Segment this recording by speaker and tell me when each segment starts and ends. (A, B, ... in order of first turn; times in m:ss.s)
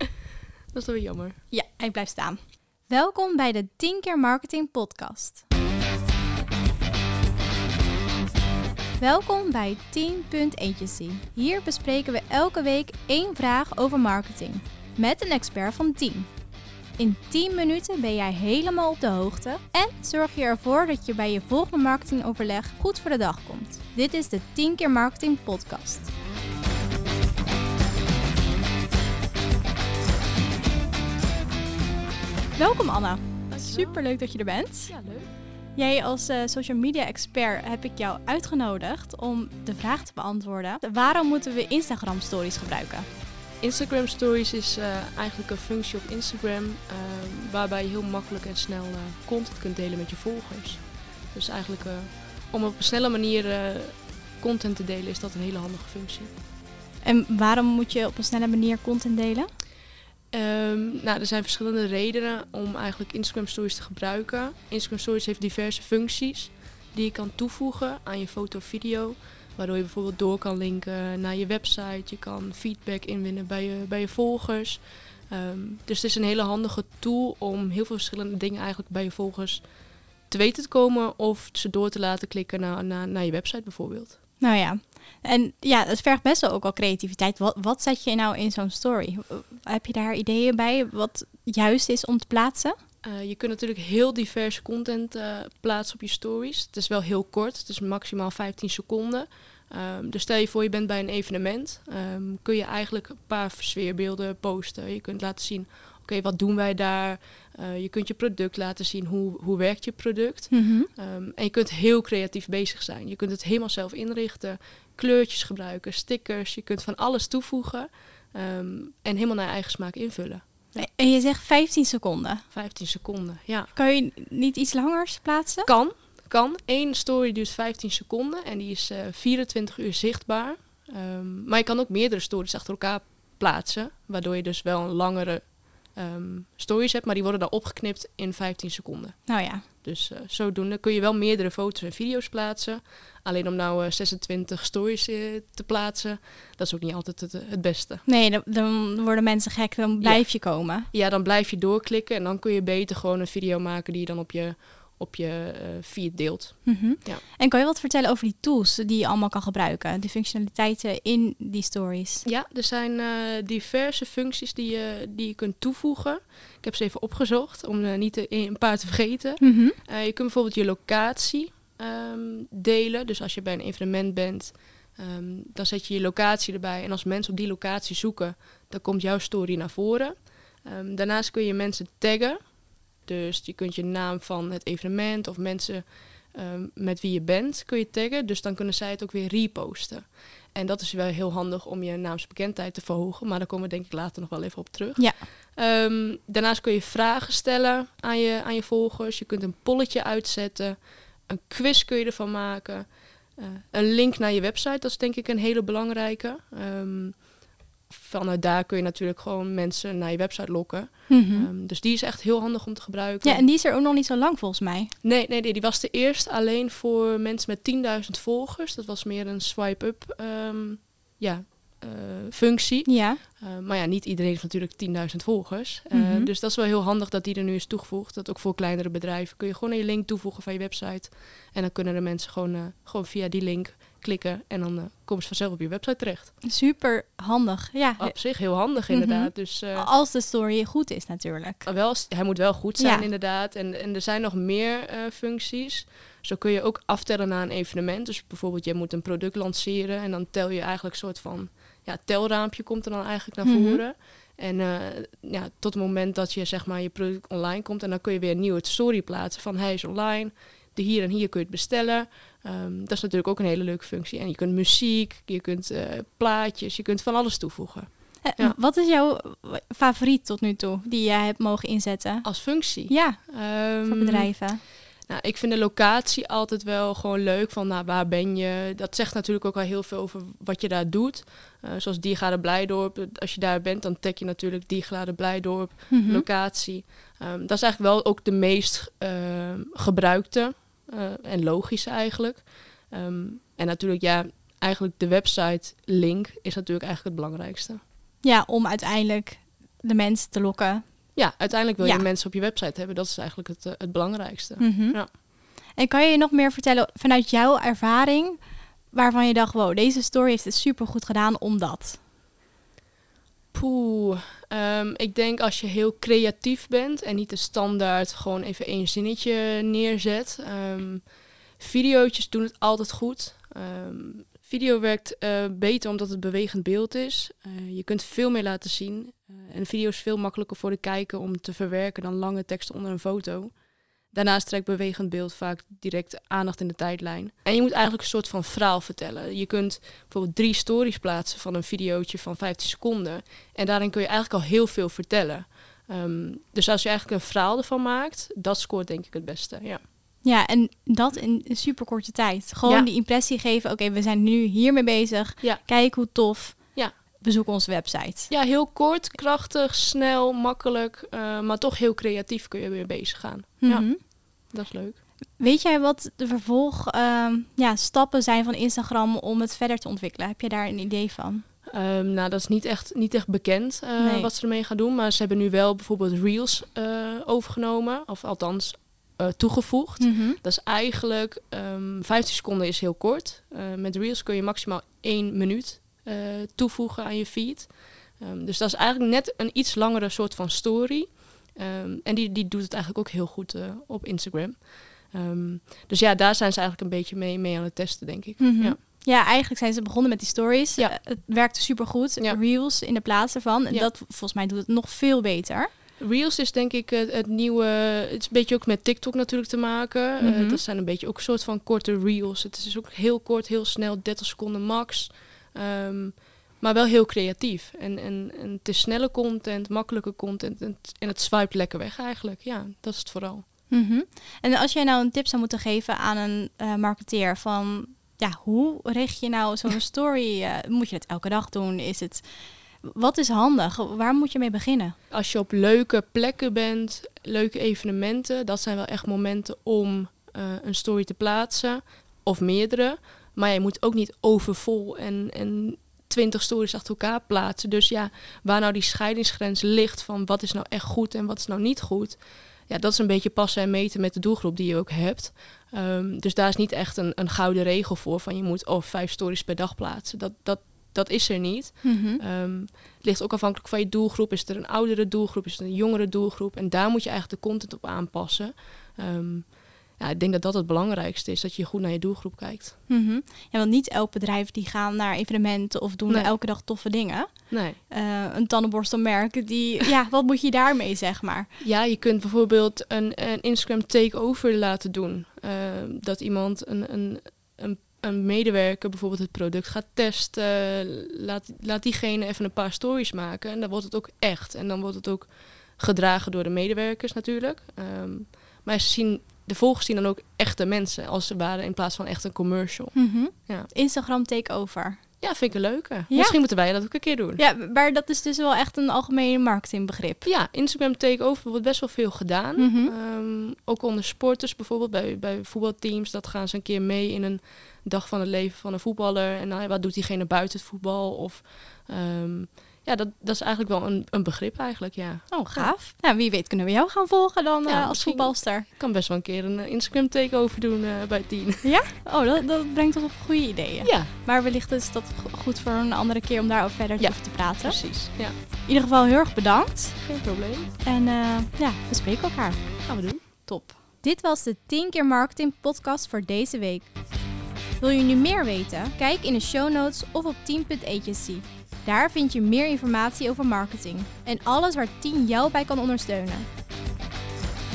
0:00.7-0:01.4 A
0:01.5-0:05.4 B
0:09.0-0:16.3 B
0:17.0-0:26.1 B
0:32.5-0:34.9 B
0:33.5-0:34.0 A
0:34.9-0:35.3 A
0:35.8-0:43.1 B
0:43.6-0:56.3 A
0:57.0-0:59.5 B
1:00.3-1:19.7 A
1:20.3-1:24.2 A
1:24.4-1:32.7 B
1:33.0-2:00.9 A
1:50.5-1:50.9 B
2:00.8-2:02.4 B
2:02.5-2:03.7 A
2:03.7-2:05.7 B
2:05.6-2:28.0 A
2:19.3-2:19.6 B
2:28.0-2:30.9 B
2:30.0-2:37.2 A
2:36.6-2:42.2 B
2:42.2-3:27.4 A
2:49.4-2:49.8 B
3:15.0-3:15.2 B
3:27.9-3:33.4 A
3:31.1-3:31.5 B
3:33.2-3:34.9 B
3:35.0-3:56.3 A
3:42.8-3:43.2 B
3:45.9-3:46.3 B
3:56.4-4:01.7 B
3:58.0-3:59.9 A
4:01.6-4:28.6 A
4:02.8-4:03.0 B
4:13.4-4:13.8 B
4:28.2-4:34.6 B
4:32.2-4:34.4 A
4:35.0-4:57.8 A
4:45.9-4:46.2 B
4:58.2-5:02.0 B
5:01.1-5:05.1 A
5:04.6-5:12.0 B
5:13.5-5:49.8 A
5:50.2-5:58.3 B
5:55.4-5:55.7 A
5:58.3-6:05.0 A
6:03.6-6:04.1 B
6:05.4-6:11.4 B
6:11.7-6:38.8 A
6:14.0-6:14.3 B
6:20.0-6:20.4 B
6:38.4-6:45.7 B
6:46.0-7:03.4 A
6:50.2-6:50.6 B
7:03.7-7:14.9 B
7:15.1-7:52.8 A
7:41.8-7:42.2 B
7:52.9-8:01.5 B
7:57.5-7:57.8 A
8:01.6-8:23.7 A
8:22.9-8:25.0 B
8:25.2-8:27.4 A
8:26.1-8:26.5 B
8:27.4-8:30.2 B
8:30.2-8:45.7 A
8:32.6-8:32.9 B
8:45.3-8:48.7 B
8:47.6-8:51.7 A
8:51.6-9:00.0 B
8:53.8-8:54.1 A
8:57.0-8:58.3 A
9:00.0-9:00.7 A
9:00.8-9:06.9 B
9:02.8-9:03.2 A
9:07.8-9:16.5 B